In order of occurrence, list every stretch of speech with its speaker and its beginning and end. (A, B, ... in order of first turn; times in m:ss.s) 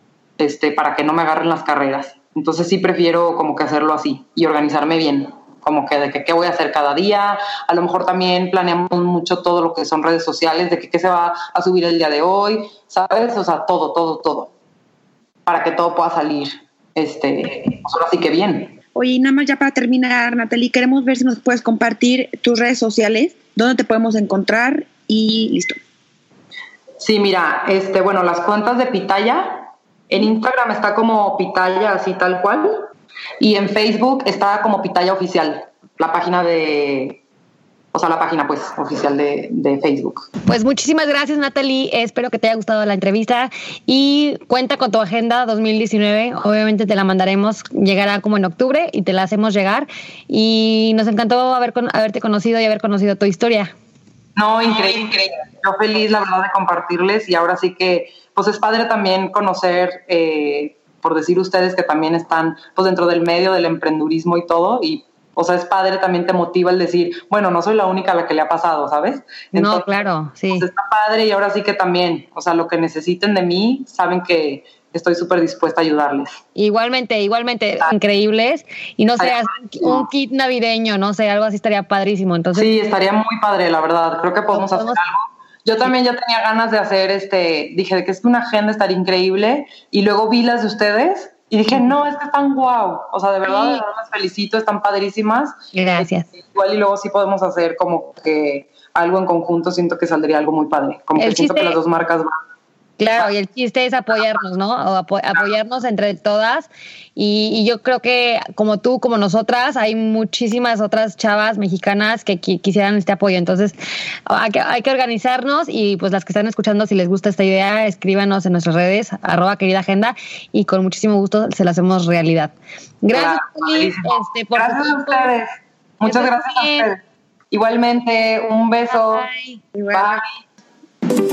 0:00.4-0:14.5 A
0:15.5-0:18.8 A
0:19.0-0:25.8 B
0:27.0-0:32.9 A
0:33.4-0:37.2 A
0:37.9-0:40.3 A
0:40.5-0:53.7 C
0:54.4-1:09.9 A
1:09.5-1:10.7 C
1:10.5-1:16.4 A
1:16.6-1:22.7 C
1:19.2-1:20.1 A
1:22.6-1:42.4 A
1:24.5-1:25.0 C
1:33.5-1:33.8 C
1:35.7-1:36.3 C
1:41.2-1:41.8 C
1:43.0-2:05.3 C
1:43.0-1:43.3 A
2:03.1-2:05.5 A
2:06.0-2:09.3 A
2:06.0-2:06.9 C
2:09.0-2:09.6 C
2:09.7-2:10.2 B
2:09.9-2:10.3 A